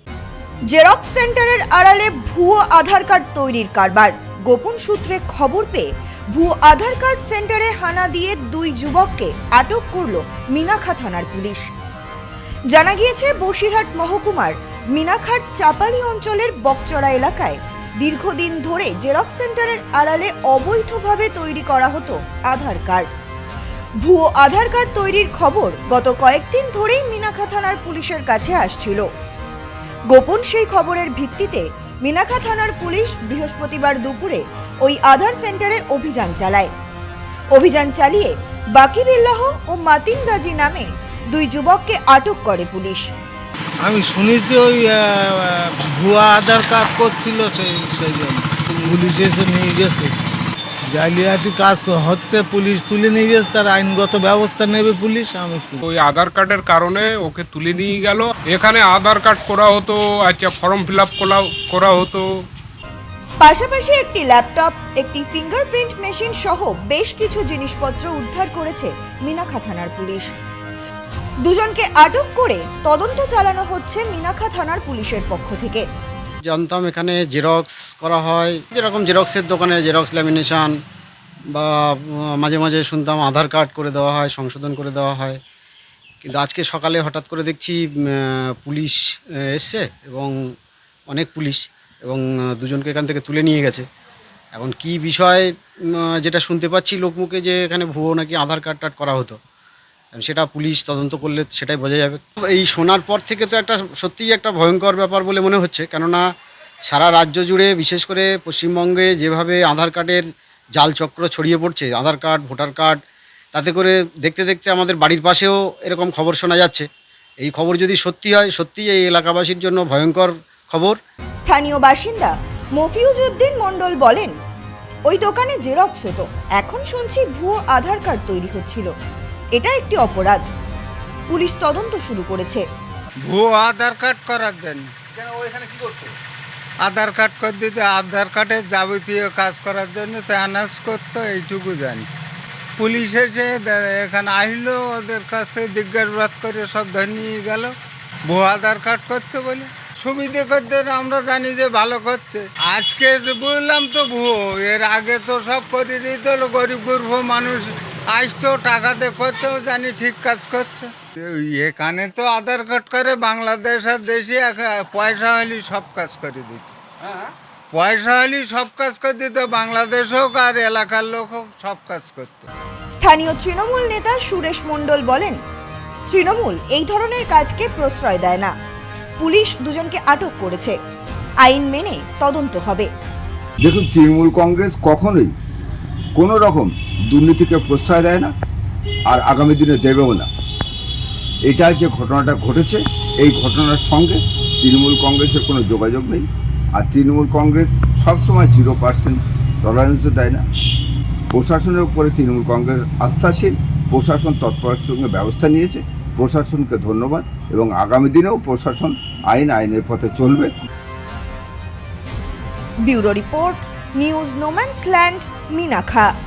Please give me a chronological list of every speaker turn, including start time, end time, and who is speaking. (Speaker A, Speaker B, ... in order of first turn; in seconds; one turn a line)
Speaker A: 0.7-11.7
Speaker A: 12.7-23.1
Speaker A: 24.0-29.1
Speaker A: 30.1-36.7
Speaker A: 37.5-43.1
Speaker B: 43.8-50.1
Speaker B: 50.9-55.8
Speaker C: 55.8-62.3
Speaker A: 63.4-70.3
Speaker A: 71.5-75.8
Speaker D: 76.5-80.7
Speaker D: 81.5-85.4
Speaker D: 86.2-90.5
Speaker D: 91.1-93.8
Speaker D: 94.5-99.4
Speaker D: 100.1-106.2
Speaker D: 106.9-113.0
Speaker D: 113.5-116.9
Speaker D: 117.4-121.0
Speaker A: 121.4-124.3
Speaker A: 125.1-128.9
Speaker A: 129.6-130.4
Speaker A: 131.3-132.6
Speaker E: 133.2-134.9
Speaker E: 136.8-142.1
Speaker E: 142.8-147.7
Speaker E: 148.2-166.7
Speaker E: 167.7-172.5
Speaker A: 172.9-175.4
Speaker A: 176.1-178.5
Speaker A: 179.2-180.8
Speaker A: 181.4-182.9
Speaker F: 183.6-185.3
Speaker F: 186.2-188.3
Speaker F: 189.1-190.3
Speaker F: 191.5-200.4
Speaker F: 201.3-210.5
Speaker A: 212.8-216.1